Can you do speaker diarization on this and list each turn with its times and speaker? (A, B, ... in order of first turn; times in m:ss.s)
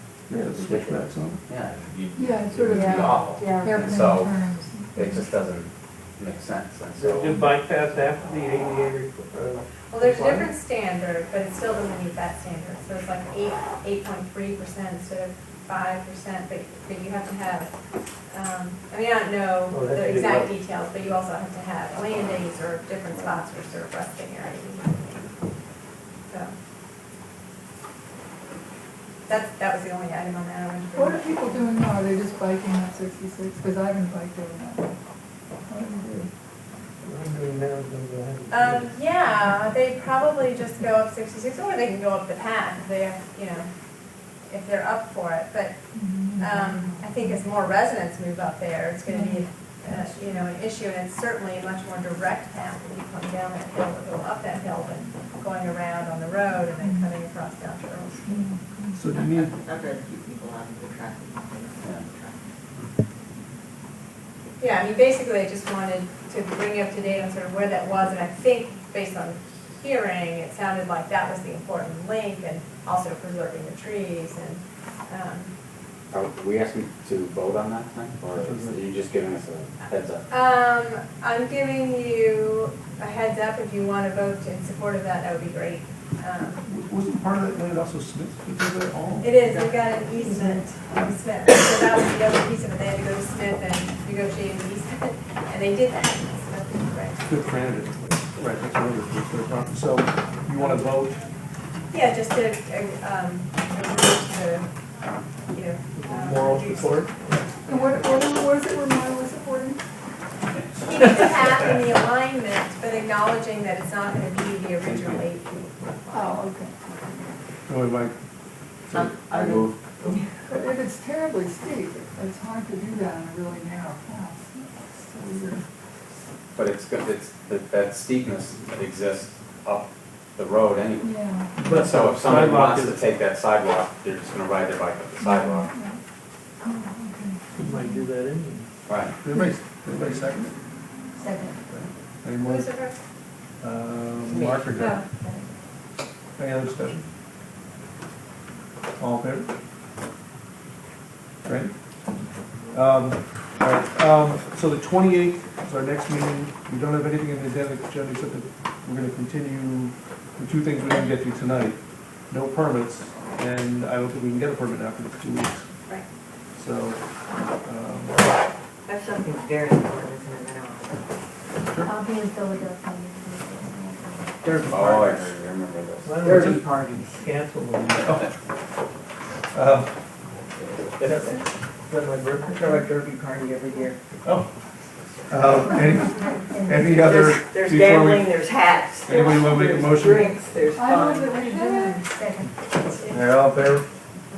0:00.3-0:01.4 A
0:00.6-0:04.4 B
0:02.2-0:05.3 C
0:02.7-0:03.8 D
0:04.9-0:07.4 B
0:07.0-0:09.6 E
0:09.9-0:17.7 F
0:18.3-0:25.3 F
0:19.8-0:20.3 E
0:26.3-0:26.5 F
0:29.3-0:31.6 F
0:30.9-0:34.9 C
0:35.7-0:36.3 C
0:37.3-0:38.9 E
0:38.5-0:43.7 F
0:44.5-0:45.8 F
0:45.9-0:47.4 C
0:46.4-0:58.5 F
0:49.1-0:49.4 C
0:56.8-0:57.1 C
0:58.3-0:59.0 C
0:59.0-0:59.5 A
0:59.2-1:02.4 G
1:04.6-1:15.5 F
1:16.1-1:20.3 B
1:18.3-1:18.8 A
1:20.3-1:26.6 F
1:26.6-1:29.4 A
1:29.2-1:37.3 F
1:29.4-1:30.0 G
1:37.3-1:41.2 A
1:41.9-1:44.7 F
1:45.5-1:47.1 F
1:46.1-1:47.1 A
1:47.7-1:49.8 C
1:50.9-1:56.4 F
1:54.8-1:55.3 A
1:56.1-1:57.2 C
1:57.7-1:58.2 A
1:58.9-1:59.6 A
1:58.9-2:00.5 G
1:59.3-1:59.8 B
2:00.5-2:05.6 C
2:06.6-2:15.7 B
2:11.0-2:11.6 C
2:15.2-2:16.0 C
2:16.6-2:18.1 C
2:17.6-2:18.7 E
2:18.9-2:19.2 B
2:19.2-2:20.6 A
2:21.2-2:21.6 D
2:21.7-2:22.7 A
2:22.4-2:23.0 F
2:23.6-2:25.1 A
2:24.3-2:24.9 G
2:24.8-2:25.5 D
2:26.4-2:27.1 A
2:29.0-2:29.5 A
2:31.4-2:31.7 A
2:32.7-2:45.7 A
2:46.6-2:47.0 A
2:47.6-2:48.2 A
2:48.9-2:51.1 G
2:51.6-2:51.9 A
2:51.8-2:54.4 D
2:54.4-2:55.3 G
2:54.6-2:56.2 B
2:56.1-2:56.4 E
2:56.2-2:57.2 G
2:58.0-2:58.3 A
2:59.5-2:59.9 A
3:00.6-3:01.4 G
3:02.4-3:04.0 G
3:04.2-3:04.5 A
3:05.0-3:05.7 B
3:05.3-3:08.3 A
3:05.6-3:07.0 D
3:06.9-3:12.1 G
3:09.0-3:10.3 A
3:10.7-3:12.0 C
3:11.4-3:12.6 D
3:13.1-3:13.8 A